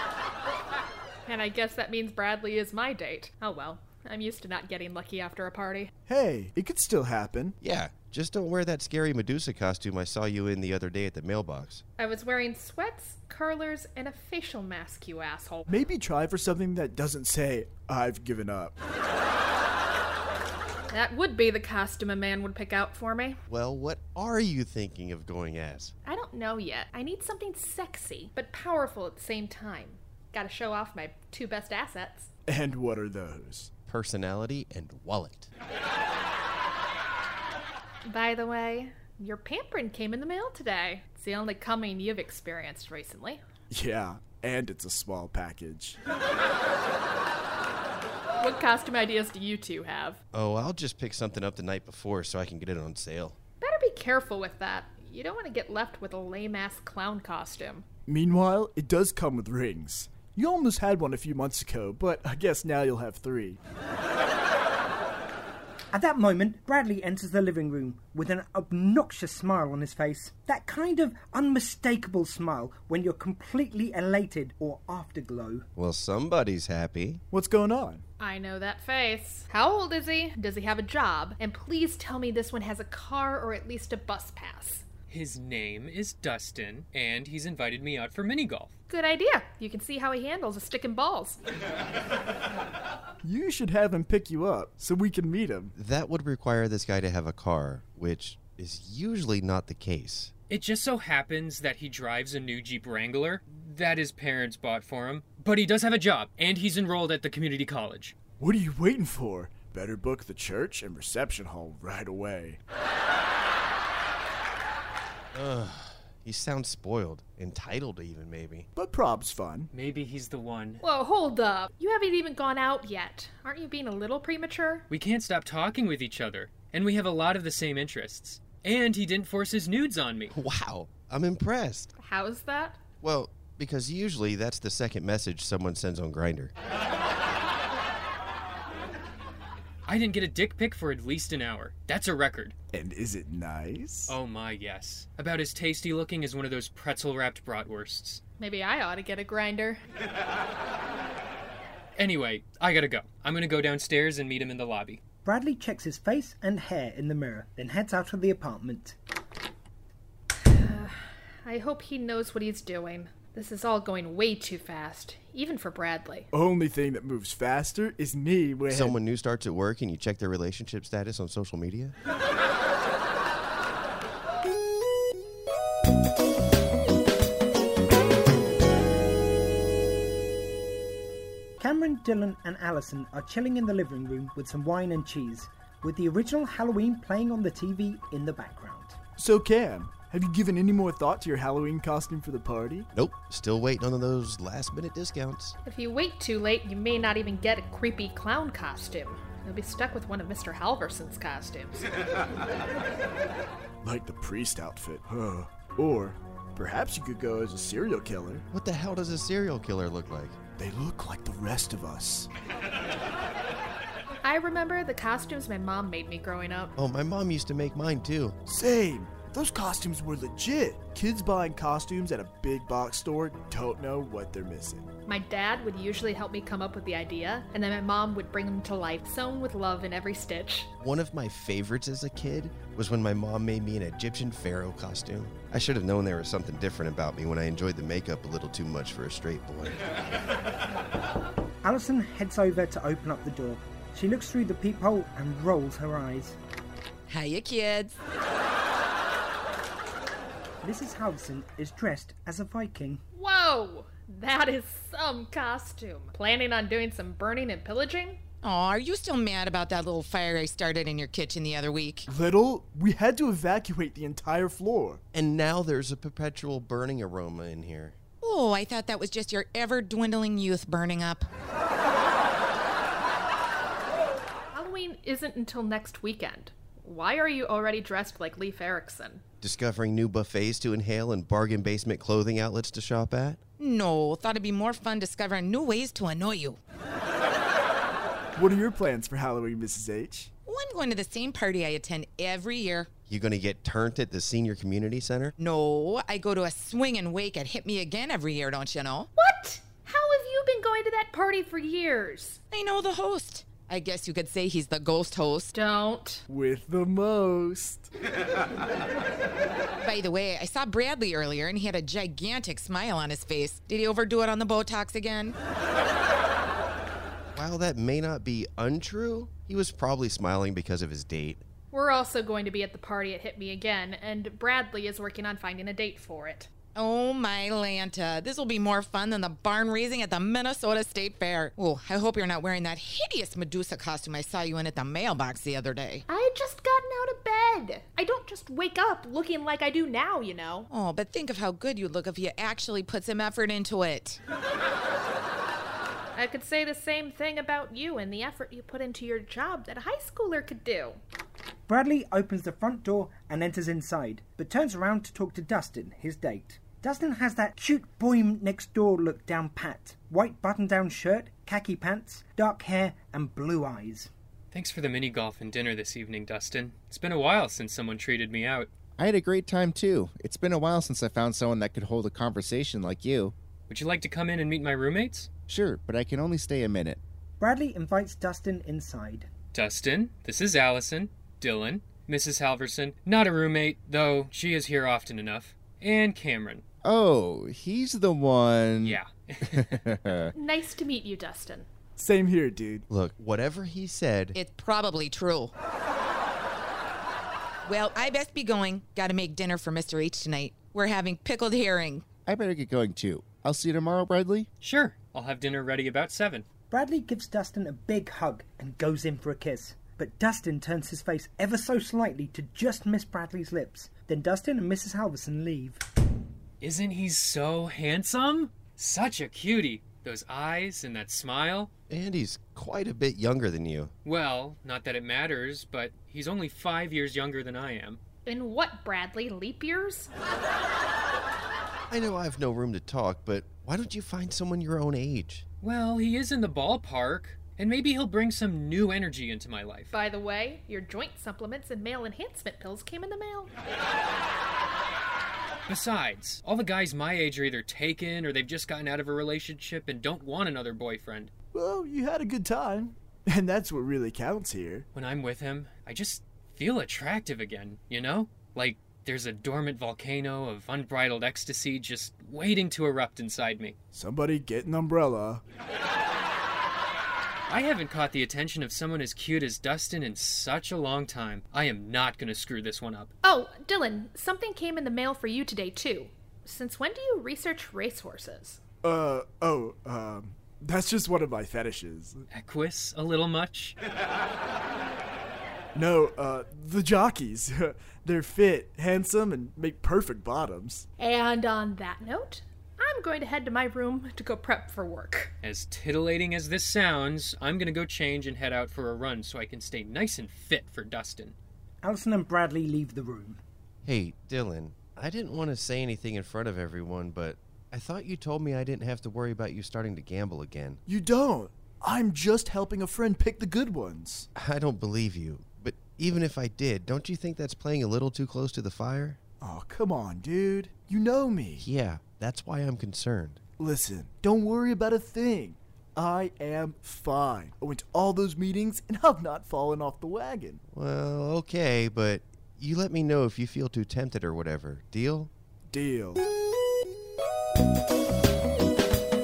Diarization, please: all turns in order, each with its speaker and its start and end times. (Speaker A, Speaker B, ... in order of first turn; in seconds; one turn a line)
Speaker A: 1.2-5.9
Speaker B: 6.1-7.5
Speaker C: 7.6-11.8
Speaker A: 12.0-15.7
Speaker B: 15.7-18.7
Speaker A: 20.9-23.4
Speaker C: 23.5-25.9
Speaker A: 26.0-32.3
Speaker B: 32.5-33.7
Speaker C: 33.9-35.5
Speaker A: 38.0-43.4
Speaker B: 43.7-46.0
Speaker A: 48.4-50.2
Speaker C: 50.3-53.4
Speaker A: 53.6-57.9
Speaker B: 58.1-63.6
Speaker D: 65.9-75.7
Speaker C: 75.8-77.2
Speaker B: 77.3-78.0
Speaker A: 78.2-84.8
Speaker E: 85.1-88.7
Speaker A: 88.9-91.4
Speaker B: 93.2-95.7
Speaker C: 95.7-100.3
Speaker E: 100.5-108.2
Speaker B: 108.4-112.6
Speaker C: 115.3-118.7
Speaker B: 118.7-119.7
Speaker E: 119.7-120.8
Speaker A: 120.8-124.8
Speaker E: 124.9-130.3
Speaker C: 130.3-131.9
Speaker A: 132.0-132.8
Speaker C: 133.0-136.5
Speaker E: 139.8-142.5
Speaker B: 142.7-144.1
Speaker E: 144.1-148.2
Speaker A: 148.4-149.8
Speaker E: 151.9-155.0
Speaker D: 155.2-158.9
Speaker A: 160.4-166.3
Speaker B: 166.3-169.0
Speaker C: 168.7-171.9
Speaker D: 181.6-189.0
Speaker B: 189.2-192.9
Speaker C: 192.9-195.6
Speaker A: 195.6-201.9
Speaker B: 203.8-208.4
Speaker C: 208.5-210.4
Speaker B: 210.6-212.3
Speaker A: 214.2-216.7
Speaker C: 216.8-218.4
Speaker B: 218.4-224.9
Speaker A: 225.1-230.7
Speaker C: 230.8-239.8
Speaker D: 241.6-246.3
Speaker F: 247.1-248.0
Speaker D: 250.6-253.0
Speaker A: 253.1-258.2
Speaker F: 258.4-262.1
Speaker B: 262.1-265.0
Speaker C: 265.1-267.9
Speaker F: 268.2-271.3
Speaker A: 274.5-279.2
Speaker C: 279.4-283.4
Speaker F: 283.6-286.6
Speaker B: 288.4-290.3
Speaker F: 290.4-292.9
Speaker C: 293.1-295.3
Speaker F: 295.4-299.1
Speaker A: 299.1-302.4
Speaker F: 302.5-305.5
Speaker A: 305.5-306.2
Speaker B: 306.3-307.9
Speaker F: 309.8-315.4
Speaker C: 317.3-321.4
Speaker A: 321.7-326.5
Speaker F: 326.7-336.0
Speaker A: 336.1-340.7
Speaker F: 340.7-344.2
Speaker A: 346.1-351.0
Speaker D: 351.7-364.1
Speaker E: 364.5-368.7
Speaker G: 369.0-373.3
Speaker E: 373.7-375.3
Speaker G: 375.5-377.0
Speaker D: 377.4-379.3
Speaker E: 379.5-386.6
Speaker G: 386.8-390.3
Speaker E: 388.8-389.9
Speaker A: 390.3-391.7
Speaker B: 392.0-392.9
Speaker C: 392.9-394.4
Speaker F: 394.3-395.5
Speaker F: 397.6-402.1
Speaker G: 402.2-404.5
Speaker E: 404.6-406.4
Speaker D: 406.7-415.8
Speaker E: 416.6-421.7
Speaker C: 421.9-423.9
Speaker E: 424.0-428.0
Speaker A: 428.2-430.1
Speaker C: 431.9-435.4
Speaker E: 435.6-439.9
Speaker A: 439.9-443.5
Speaker E: 445.7-451.3
Speaker B: 451.5-454.9
Speaker E: 454.9-463.8
Speaker B: 463.9-465.4
Speaker E: 467.5-473.1
Speaker A: 473.2-478.6
Speaker B: 478.8-482.2
Speaker E: 482.3-483.8
Speaker B: 485.7-490.8
Speaker A: 491.0-495.3
Speaker E: 495.4-501.3
Speaker D: 501.8-503.4
Speaker C: 503.8-510.8
Speaker B: 510.9-514.3
Speaker C: 514.3-519.2
Speaker B: 519.4-521.6
Speaker C: 521.6-523.4
Speaker B: 523.6-530.6
Speaker C: 530.7-535.3
Speaker B: 535.7-536.2